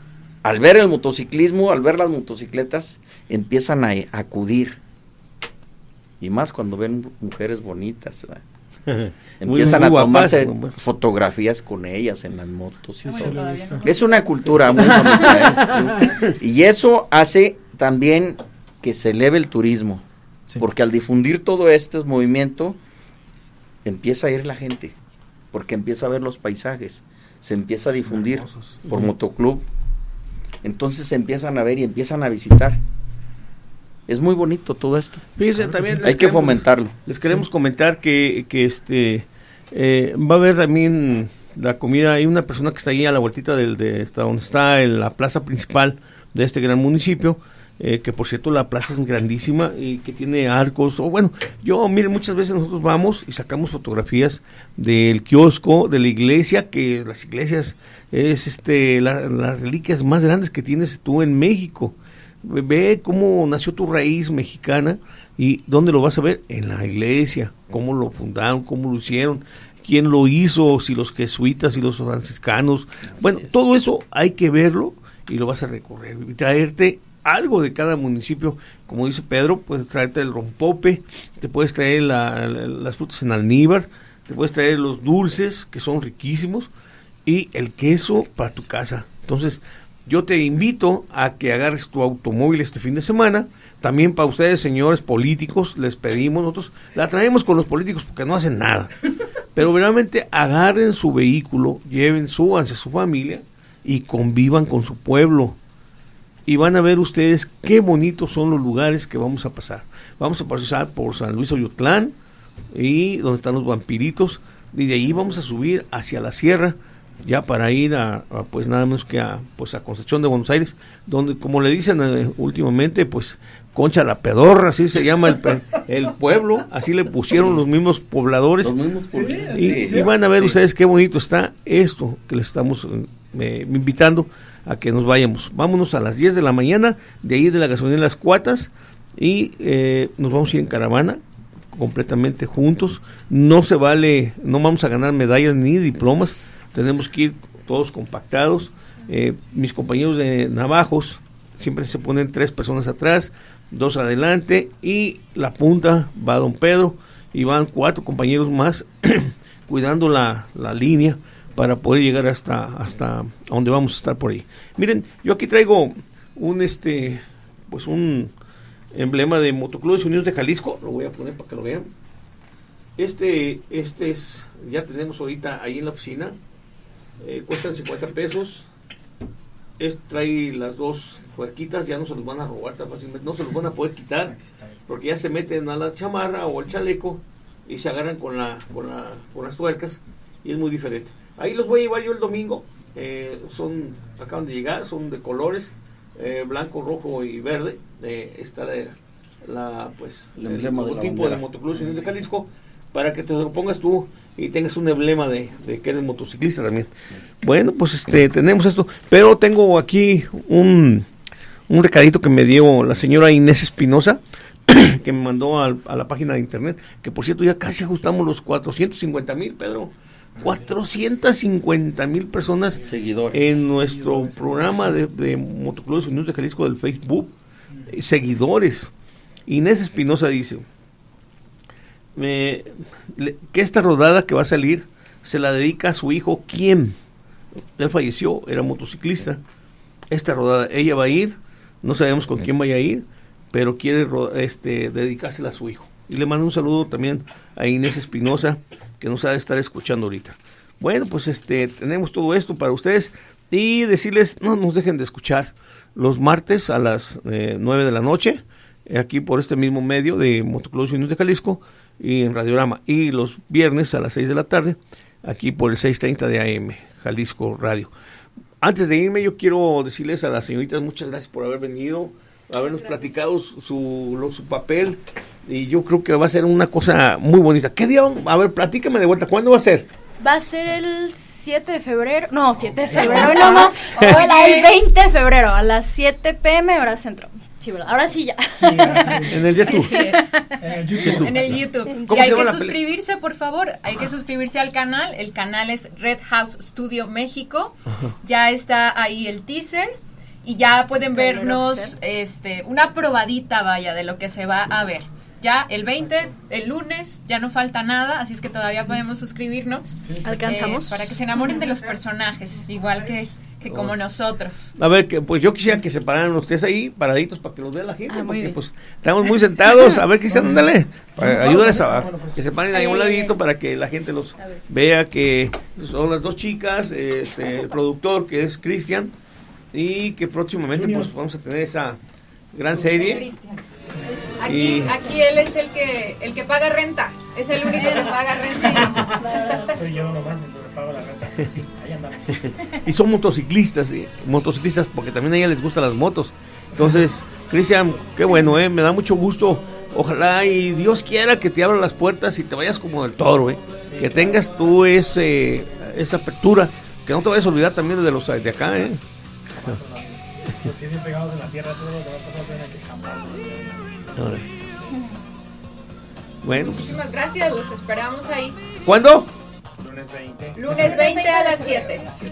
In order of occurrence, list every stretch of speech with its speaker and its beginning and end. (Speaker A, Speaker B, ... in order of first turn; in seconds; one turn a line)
Speaker A: 0.4-4.8
Speaker A: 6.2-8.4
Speaker B: 8.9-10.8
Speaker A: 9.4-20.0
Speaker C: 13.0-13.8
Speaker D: 13.1-14.3
Speaker C: 14.7-16.0
Speaker A: 20.6-22.8
Speaker A: 23.8-24.9
Speaker A: 25.5-29.6
Speaker C: 28.0-28.8
Speaker A: 30.6-32.8
Speaker A: 34.1-35.2
Speaker B: 35.4-86.7
Speaker C: 35.5-36.2
Speaker A: 36.0-37.0
Speaker A: 73.1-73.6
Speaker B: 87.2-98.9
Speaker B: 99.5-105.6
Speaker B: 106.5-112.1
Speaker B: 112.7-128.8
Speaker A: 127.3-127.6
Speaker A: 128.6-130.6
Speaker C: 129.1-130.1
Speaker B: 129.5-141.2
Speaker B: 141.7-168.3
Speaker B: 168.9-171.9
Speaker B: 173.0-176.3
Speaker B: 177.2-178.7
Speaker B: 179.8-184.3
Speaker C: 184.2-184.8
Speaker B: 184.9-206.9
Speaker A: 200.3-201.5
Speaker B: 207.4-211.1
Speaker B: 211.7-222.8
Speaker C: 220.4-220.7
Speaker C: 222.7-225.0
Speaker A: 222.8-223.7
Speaker B: 223.3-227.3
Speaker B: 227.9-228.9
Speaker B: 229.5-230.6
Speaker B: 232.2-236.9
Speaker B: 237.8-239.4
Speaker B: 240.1-267.9
Speaker B: 268.6-279.9
Speaker E: 280.2-290.8
Speaker C: 282.8-283.6
Speaker D: 282.9-284.7
Speaker B: 282.9-283.3
Speaker B: 283.9-284.2
Speaker C: 288.5-289.5
Speaker B: 289.3-289.9
Speaker D: 289.5-290.3
Speaker C: 290.6-291.6
Speaker D: 291.0-314.7
Speaker B: 291.0-292.8
Speaker E: 291.9-292.4
Speaker E: 301.1-301.9
Speaker C: 310.0-310.4
Speaker E: 310.2-312.0
Speaker B: 313.7-313.9
Speaker B: 314.8-329.1
Speaker E: 318.1-318.6
Speaker E: 319.7-319.9
Speaker C: 320.3-322.5
Speaker E: 322.7-323.4
Speaker B: 329.7-332.0
Speaker C: 330.7-331.1
Speaker B: 332.5-333.2
Speaker C: 332.7-333.2
Speaker E: 333.1-333.3
Speaker D: 334.4-339.2
Speaker B: 334.5-334.9
Speaker C: 337.8-338.1
Speaker C: 338.6-342.5
Speaker E: 339.0-339.8
Speaker B: 342.4-359.0
Speaker C: 353.9-355.8
Speaker C: 359.5-364.1
Speaker B: 364.2-364.5
Speaker E: 364.9-365.2
Speaker B: 366.4-366.9
Speaker D: 366.5-368.6
Speaker B: 368.8-369.3
Speaker C: 369.8-371.2
Speaker D: 370.5-372.1
Speaker E: 370.7-372.1